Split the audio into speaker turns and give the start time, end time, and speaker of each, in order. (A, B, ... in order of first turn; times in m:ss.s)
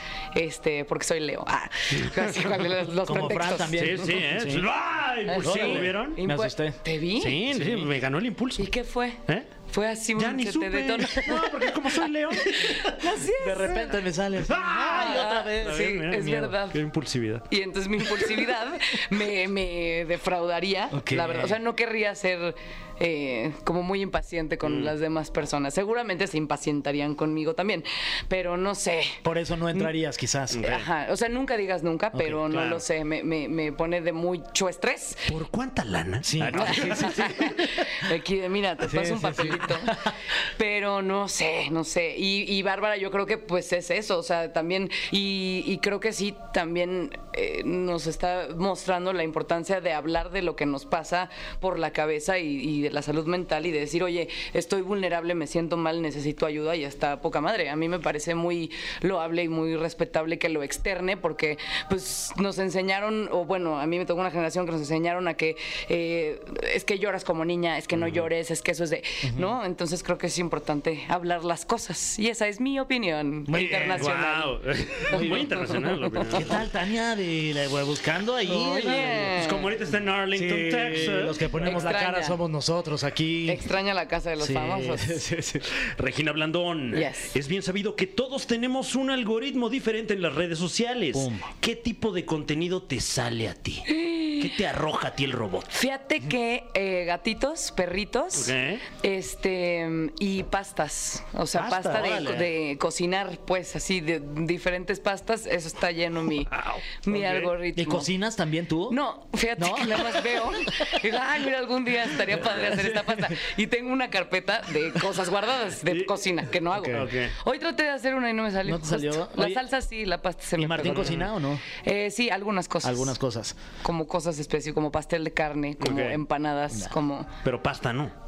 0:00.3-0:03.8 A
0:02.0-0:02.4 B
0:03.0-0:04.7 C
0:03.8-0:06.2 B
0:05.3-0:07.4 A
0:05.4-0:06.8 C
0:07.2-0:08.7 B
0:07.5-0:07.9 C
0:08.6-0:11.5 A
0:10.2-0:12.8 B
0:12.6-0:14.0 A
0:12.6-0:16.4 C
0:14.4-0:17.5 B
0:14.8-0:16.8 A
0:17.5-0:29.2 A
0:20.9-0:21.6 C
0:24.6-0:24.9 B
0:29.2-0:30.6 C
0:30.5-0:30.9 B
0:30.6-0:35.3 A
0:32.2-0:32.4 C
0:32.5-0:32.8 B
0:35.3-0:37.6 B
0:36.2-0:37.5 C
0:36.6-0:40.0 A
0:38.8-0:40.1 C
0:40.6-1:14.6 A
1:07.9-1:08.3 B
1:09.2-1:09.5 C
1:13.5-1:14.1 C
1:13.6-1:16.6 B
1:15.1-1:16.4 A
1:15.1-1:15.7 C
1:16.2-1:19.4 C
1:18.5-1:19.7 A
1:18.9-1:21.8 B
1:20.3-1:23.7 C
1:21.6-1:22.4 A
1:23.5-1:25.2 A
1:24.4-1:25.7 C
1:25.8-1:33.9 B
1:26.9-1:27.3 A
1:31.1-1:31.5 C
1:33.9-1:34.5 A
1:34.4-1:35.8 B
1:35.7-1:48.1 A
1:38.4-1:38.8 B
1:41.5-1:42.4 B
1:41.9-1:42.5 C
1:46.5-1:47.5 B
1:47.8-1:49.0 C
1:48.9-2:01.2 A
1:49.6-1:50.6 C
1:52.4-1:53.4 C
1:55.9-1:56.1 B
1:56.7-1:57.1 C
1:56.9-1:57.3 B
1:58.6-1:59.6 C
2:00.6-2:01.6 C
2:00.9-2:01.3 B
2:01.8-2:03.2 A
2:02.8-2:03.6 C
2:03.8-2:07.3 A
2:05.8-2:06.2 B
2:07.4-2:08.1 B